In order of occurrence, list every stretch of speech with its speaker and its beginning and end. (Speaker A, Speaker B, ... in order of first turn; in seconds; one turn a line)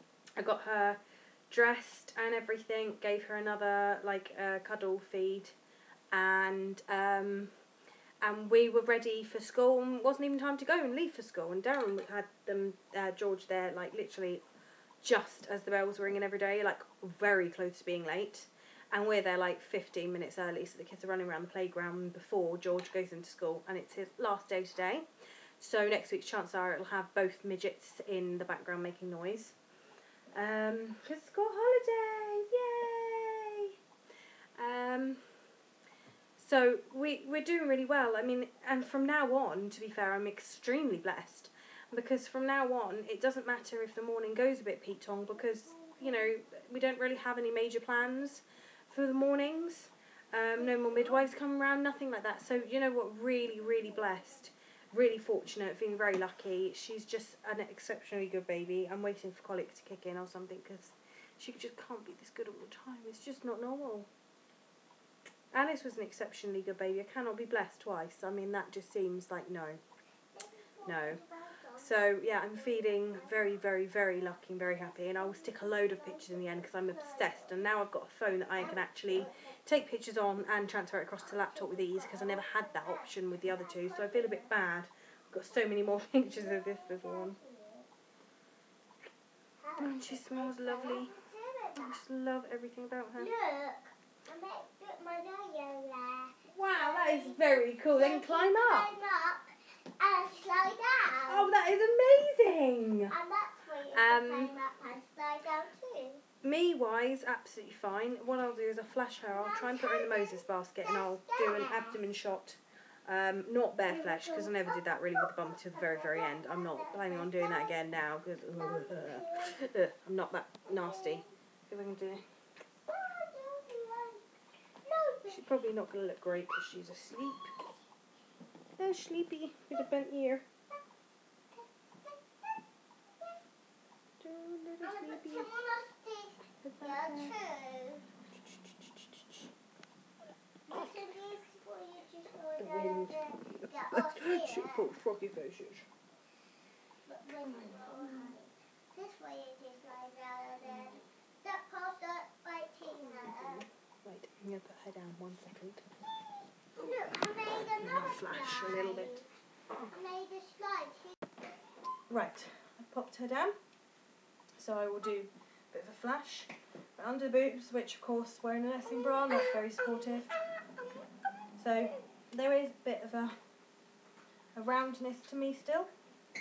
Speaker A: 0.4-5.5
Speaker A: 6.1-7.5
Speaker A: 8.2-14.4
Speaker A: 15.0-25.1
Speaker A: 25.6-29.6
Speaker A: 30.3-33.7
Speaker A: 34.6-35.3
Speaker A: 36.4-64.1
Speaker B: 45.7-46.2
Speaker A: 65.5-69.8
Speaker B: 70.3-73.7
Speaker A: 70.8-71.2
Speaker A: 71.8-87.4
Speaker B: 75.0-77.5
Speaker B: 78.6-79.5
Speaker B: 81.2-84.5
Speaker B: 86.2-87.9
Speaker B: 89.6-92.0
Speaker A: 89.8-91.1
Speaker A: 91.7-93.3
Speaker B: 93.2-101.5
Speaker A: 96.5-98.9
Speaker A: 101.3-103.1
Speaker B: 103.1-106.2
Speaker A: 103.9-104.6
Speaker A: 106.4-122.2
Speaker B: 109.3-112.0
Speaker B: 113.9-117.8
Speaker B: 118.5-119.6
Speaker B: 120.7-121.3
Speaker B: 122.9-124.2
Speaker B: 124.8-125.6
Speaker A: 125.3-127.5
Speaker A: 128.8-130.4
Speaker B: 131.5-132.2
Speaker A: 134.2-135.5
Speaker B: 134.8-138.1
Speaker A: 136.6-137.4
Speaker A: 138.5-139.5
Speaker B: 140.7-144.9
Speaker A: 140.7-141.0
Speaker A: 142.6-145.9
Speaker B: 147.1-153.6
Speaker A: 147.4-148.4
Speaker A: 150.6-151.0
Speaker A: 153.0-155.9
Speaker B: 156.8-159.2
Speaker A: 157.5-159.9
Speaker B: 159.9-161.2
Speaker A: 162.1-163.5
Speaker A: 164.6-170.3
Speaker A: 171.6-173.3
Speaker A: 174.6-175.9